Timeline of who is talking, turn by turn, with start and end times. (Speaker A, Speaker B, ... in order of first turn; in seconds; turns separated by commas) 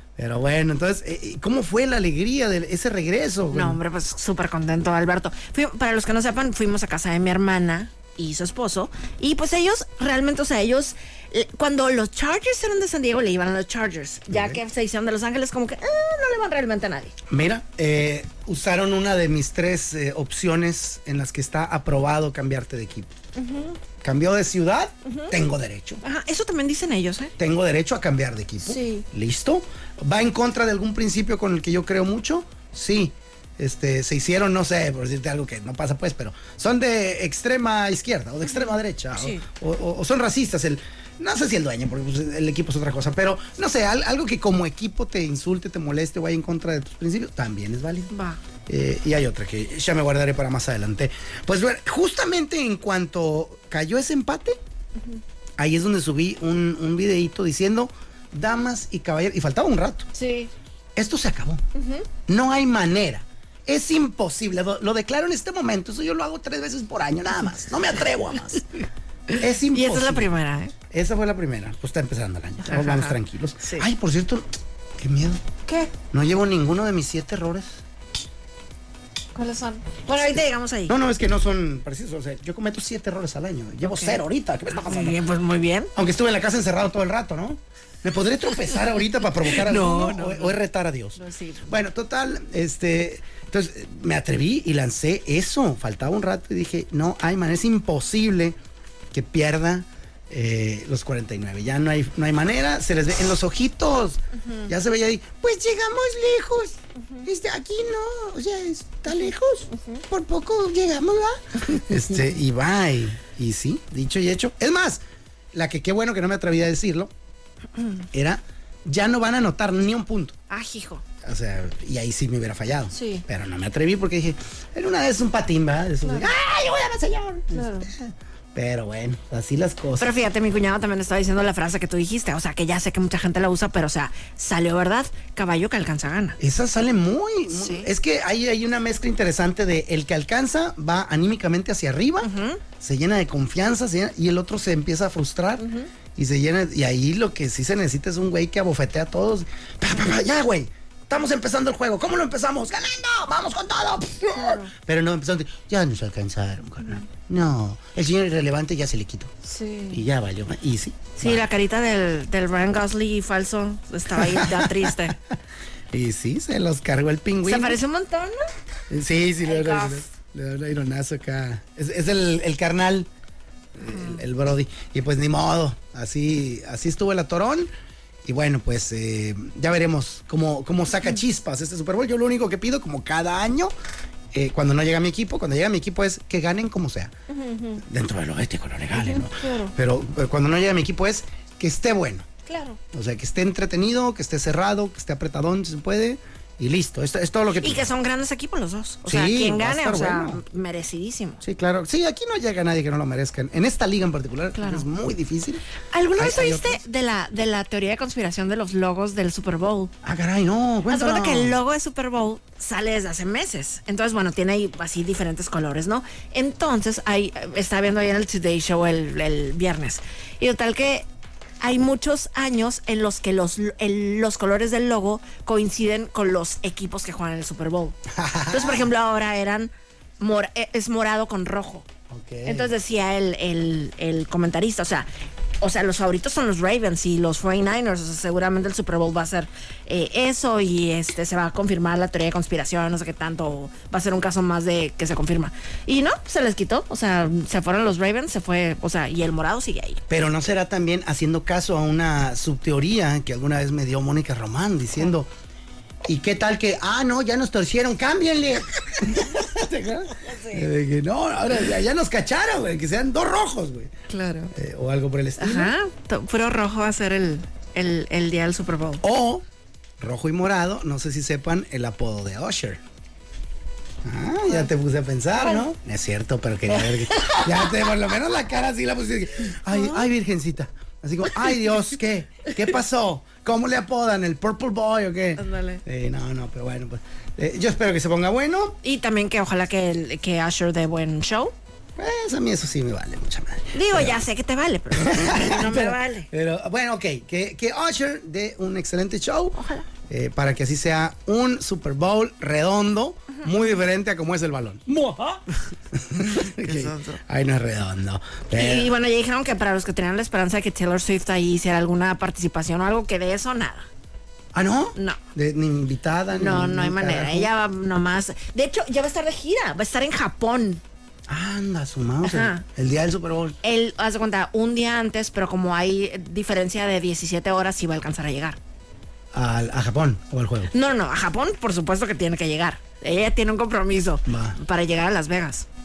Speaker A: 0.2-3.8, Speaker B: 3.5-17.1, Speaker A: 14.3-14.6, Speaker A: 17.3-23.1, Speaker B: 23.4-23.8, Speaker A: 24.0-26.0, Speaker B: 25.1-25.3, Speaker B: 26.0-27.3, Speaker A: 27.4-48.1, Speaker B: 28.6-29.1, Speaker B: 38.5-39.4, Speaker B: 48.1-48.4, Speaker A: 48.7-54.6, Speaker A: 55.6-60.1, Speaker B: 60.1-60.5, Speaker A: 61.0-61.6, Speaker B: 61.8-62.1, Speaker A: 62.3-68.6, Speaker A: 69.4-70.3, Speaker B: 69.7-70.7, Speaker A: 70.9-74.5, Speaker B: 72.6-73.9, Speaker A: 75.0-75.4, Speaker B: 75.7-75.9, Speaker A: 76.0-77.8, Speaker B: 79.3-81.0, Speaker A: 80.9-85.2, Speaker B: 83.8-84.2, Speaker B: 84.7-85.9, Speaker A: 86.0-98.6, Speaker B: 89.5-90.6, Speaker B: 91.2-91.7, Speaker A: 99.1-117.1, Speaker B: 104.4-104.7, Speaker A: 118.1-120.4, Speaker B: 120.5-121.0, Speaker A: 121.2-130.2, Speaker B: 122.9-123.2, Speaker B: 126.0-126.3, Speaker B: 127.5-127.9, Speaker B: 130.0-136.4, Speaker A: 136.4-159.3, Speaker B: 137.5-137.9, Speaker B: 142.2-142.6, Speaker B: 145.6-145.9, Speaker B: 154.3-154.7, Speaker B: 159.4-160.1, Speaker A: 159.9-161.4, Speaker B: 161.2-165.2, Speaker A: 164.2-165.4, Speaker A: 165.9-167.8, Speaker B: 167.4-168.5, Speaker A: 168.9-173.1, Speaker B: 169.4-170.1, Speaker A: 173.8-177.7, Speaker B: 173.8-174.2, Speaker A: 178.3-183.7, Speaker A: 184.3-187.1, Speaker B: 187.3-187.8, Speaker A: 187.8-192.3, Speaker B: 188.9-189.7, Speaker B: 192.5-192.8, Speaker A: 192.9-197.9, Speaker B: 197.6-201.4, Speaker A: 199.1-200.4, Speaker A: 201.4-205.6, Speaker B: 204.6-204.8, Speaker B: 205.9-209.9, Speaker A: 206.2-206.8, Speaker A: 210.0-211.6, Speaker B: 210.9-221.1, Speaker B: 221.6-228.0, Speaker A: 228.1-228.9, Speaker B: 228.5-231.9, Speaker A: 232.1-232.7, Speaker B: 232.4-235.1, Speaker B: 235.6-250.0, Speaker A: 250.1-255.3, Speaker A: 256.1-263.9, Speaker B: 260.2-260.7, Speaker B: 264.1-264.5, Speaker A: 264.5-265.8, Speaker B: 265.4-269.0, Speaker A: 269.0-269.4, Speaker A: 270.0-272.8, Speaker A: 274.0-288.8, Speaker B: 275.4-275.6, Speaker B: 276.7-277.9, Speaker B: 279.7-280.1, Speaker B: 285.4-285.8, Speaker B: 288.8-291.5, Speaker A: 292.0-294.2, Speaker B: 293.7-296.3, Speaker A: 294.9-308.9, Speaker B: 299.6-299.9, Speaker B: 303.3-303.6, Speaker B: 306.3-307.2, Speaker B: 308.5-313.9, Speaker A: 314.5-317.5, Speaker B: 316.3-320.8, Speaker A: 321.3-323.6, Speaker B: 322.2-322.6, Speaker B: 323.6-328.6, Speaker A: 329.3-330.7, Speaker B: 330.7-335.7, Speaker A: 334.3-334.6